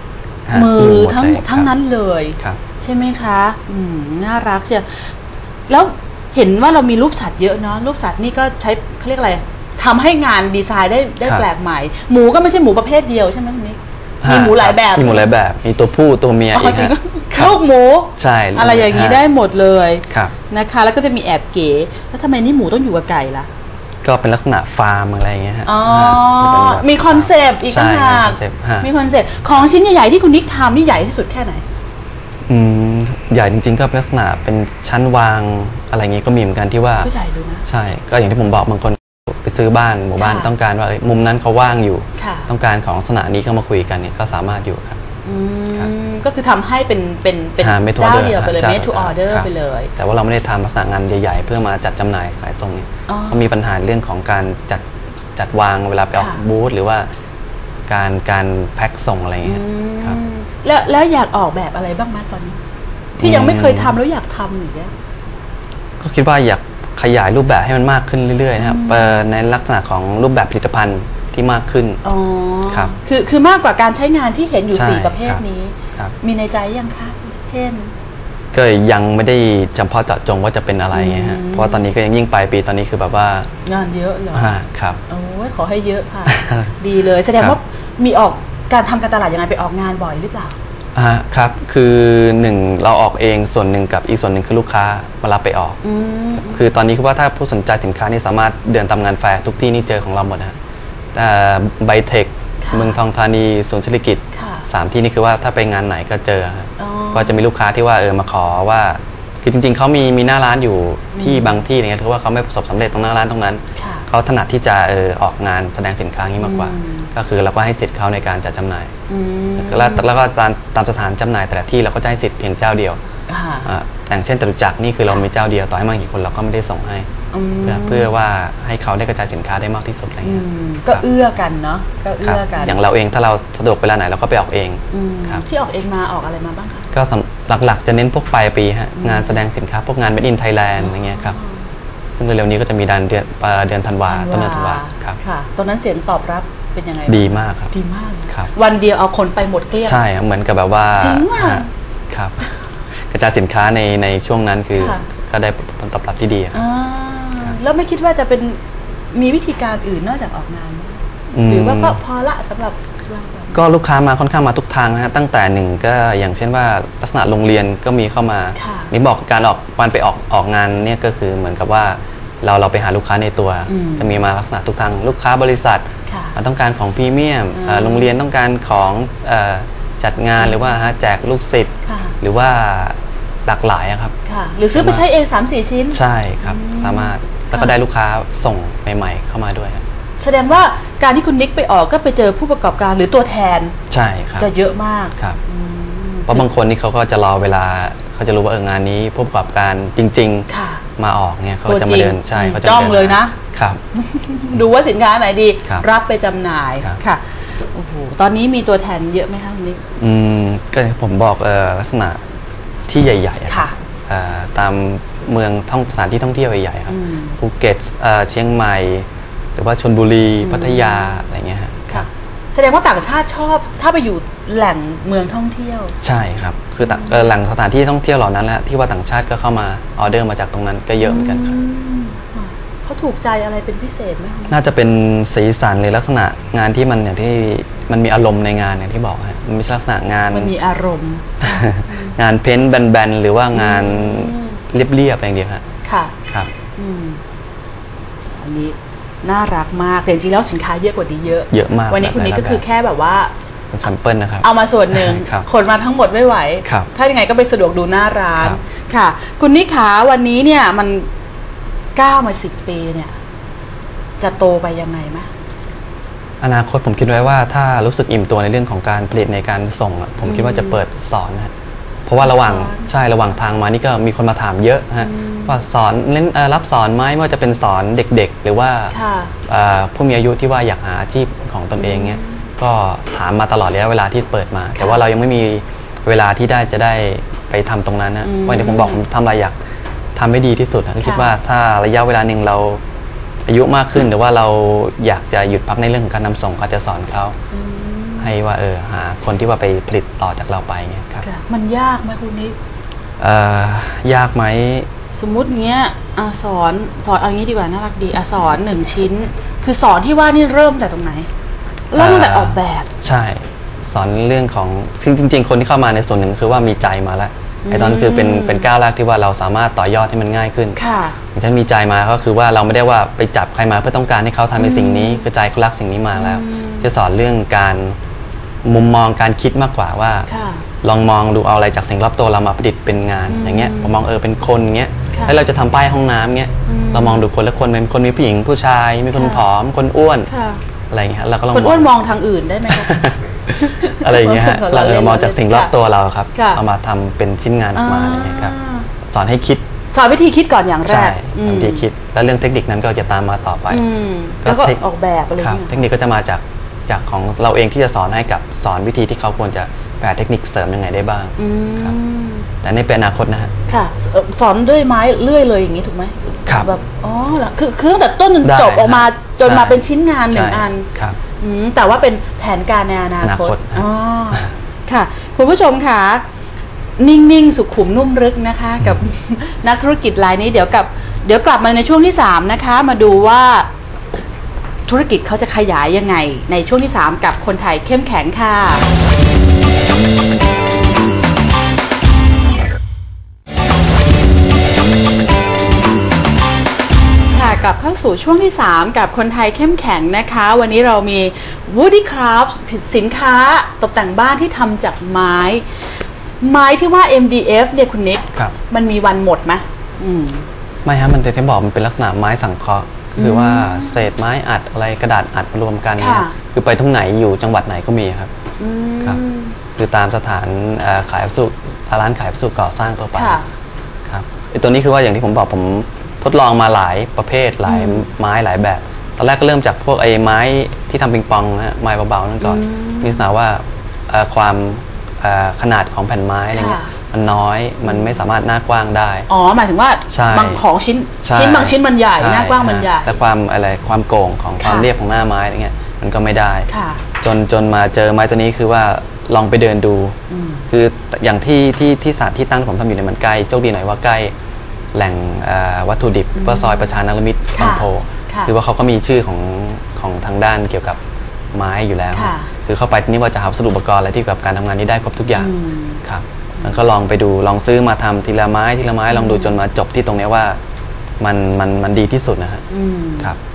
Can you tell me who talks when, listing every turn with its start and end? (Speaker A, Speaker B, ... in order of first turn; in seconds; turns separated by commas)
Speaker A: 0.5-1.7, Speaker B: 0.5-5.1, Speaker B: 5.7-15.3, Speaker A: 14.2-17.6, Speaker B: 16.5-23.5, Speaker A: 18.2-19.2, Speaker A: 24.0-28.9, Speaker B: 25.7-31.6, Speaker A: 32.5-37.1, Speaker B: 37.0-37.6, Speaker A: 37.7-45.0, Speaker B: 40.2-40.5, Speaker B: 42.2-42.5, Speaker B: 45.2-49.9, Speaker A: 47.6-54.9, Speaker B: 53.1-53.5, Speaker A: 55.4-57.1, Speaker B: 56.1-56.4, Speaker A: 57.9-60.2, Speaker B: 59.4-62.6, Speaker A: 63.2-64.0, Speaker B: 63.2-64.9, Speaker A: 66.0-72.0, Speaker B: 68.6-69.1, Speaker B: 72.0-77.9, Speaker A: 74.7-75.4, Speaker A: 78.5-83.5, Speaker B: 80.9-81.8, Speaker B: 83.7-84.5, Speaker A: 84.3-85.0, Speaker B: 85.1-90.5, Speaker A: 86.3-86.7, Speaker A: 91.0-95.8, Speaker B: 95.8-96.7, Speaker A: 96.4-100.6, Speaker A: 101.1-118.9, Speaker B: 102.6-103.0, Speaker B: 104.3-104.7, Speaker B: 106.8-107.4, Speaker B: 111.1-111.6, Speaker B: 113.8-114.0, Speaker B: 116.4-117.1, Speaker B: 119.1-120.1, Speaker A: 119.6-123.0, Speaker B: 123.3-123.7, Speaker A: 123.7-127.1, Speaker B: 127.3-128.1, Speaker A: 127.6-131.0, Speaker B: 130.2-132.8, Speaker A: 132.2-135.4, Speaker B: 134.9-136.9, Speaker A: 136.9-141.4, Speaker B: 139.0-139.4, Speaker B: 140.8-141.5, Speaker A: 142.2-145.2, Speaker B: 144.1-150.0, Speaker A: 147.1-147.7, Speaker A: 149.8-152.4, Speaker B: 151.0-151.7, Speaker A: 152.9-156.6, Speaker B: 154.8-155.1, Speaker B: 156.5-158.6, Speaker B: 159.1-163.6, Speaker A: 161.3-162.0, Speaker A: 163.5-184.1, Speaker B: 168.6-168.9, Speaker B: 173.7-174.2, Speaker B: 176.1-176.4, Speaker B: 177.6-178.1, Speaker B: 181.9-182.1, Speaker B: 184.3-187.8, Speaker A: 184.7-185.0, Speaker A: 185.9-189.8, Speaker B: 190.2-193.8, Speaker A: 193.9-194.5, Speaker B: 194.4-196.5, Speaker A: 196.3-203.8, Speaker B: 200.5-200.8, Speaker B: 201.7-203.4, Speaker B: 203.9-209.8, Speaker A: 210.0-212.2, Speaker A: 212.9-222.1, Speaker B: 213.5-213.8, Speaker B: 216.9-217.4, Speaker B: 220.4-221.2, Speaker B: 221.9-225.9, Speaker A: 226.0-231.6, Speaker B: 226.8-227.3, Speaker B: 231.0-234.6, Speaker A: 234.5-240.5, Speaker B: 240.3-242.1, Speaker A: 241.4-245.7, Speaker B: 243.5-244.6, Speaker B: 245.8-246.2, Speaker B: 246.8-247.2, Speaker B: 248.4-253.3, Speaker A: 251.5-252.6, Speaker A: 253.7-255.5, Speaker B: 254.4-261.1, Speaker B: 262.0-263.1, Speaker B: 264.2-265.3, Speaker A: 266.4-271.5, Speaker B: 270.2-270.8, Speaker A: 272.1-278.9, Speaker B: 272.2-272.9, Speaker B: 275.0-275.6, Speaker B: 278.9-279.4, Speaker A: 279.5-289.6, Speaker B: 281.8-282.4, Speaker B: 284.8-285.0, Speaker B: 288.2-289.0, Speaker A: 290.2-292.8, Speaker B: 291.0-291.3, Speaker A: 293.5-297.4, Speaker B: 297.5-298.3, Speaker A: 298.2-301.3, Speaker B: 301.2-302.6, Speaker A: 303.2-304.9, Speaker B: 305.1-311.3, Speaker B: 311.9-312.9, Speaker A: 312.0-320.8, Speaker B: 317.6-318.7, Speaker B: 320.8-321.2, Speaker A: 321.4-328.0, Speaker B: 324.6-325.2, Speaker B: 326.1-326.9, Speaker A: 328.6-330.3, Speaker B: 330.3-330.6, Speaker A: 330.8-340.3, Speaker B: 333.3-333.9, Speaker B: 336.7-337.2, Speaker B: 339.1-339.4, Speaker B: 340.3-340.6, Speaker A: 340.9-341.9, Speaker B: 341.5-345.7, Speaker A: 342.7-348.6, Speaker B: 346.4-346.6, Speaker B: 347.8-348.9, Speaker A: 349.1-349.6, Speaker B: 349.9-351.9, Speaker A: 350.9-353.8, Speaker B: 353.7-355.9, Speaker A: 354.4-354.8, Speaker A: 355.4-361.9, Speaker B: 361.4-362.5, Speaker A: 362.6-363.5, Speaker B: 363.7-376.2, Speaker A: 368.4-371.2, Speaker A: 373.2-374.5, Speaker B: 377.0-383.7, Speaker B: 384.9-388.9, Speaker B: 397.3-405.7, Speaker B: 406.4-410.5, Speaker A: 410.9-418.3, Speaker B: 413.2-414.1, Speaker B: 416.0-416.4, Speaker B: 418.6-419.6, Speaker A: 419.8-423.4, Speaker B: 423.1-423.5, Speaker A: 424.1-439.3, Speaker B: 427.7-428.1, Speaker B: 432.4-433.2, Speaker B: 436.5-436.9, Speaker B: 437.9-438.2, Speaker B: 439.3-443.2, Speaker A: 440.1-440.6, Speaker A: 441.2-446.7, Speaker B: 444.6-444.9, Speaker B: 446.7-447.0, Speaker A: 447.2-450.2, Speaker B: 450.3-450.6, Speaker A: 450.7-454.3, Speaker A: 454.9-461.0, Speaker B: 456.4-456.9, Speaker B: 457.5-458.5, Speaker A: 461.5-465.5, Speaker B: 462.1-462.5, Speaker B: 465.4-466.0, Speaker A: 466.0-470.6, Speaker B: 469.1-469.6, Speaker A: 471.2-472.6, Speaker B: 472.7-473.3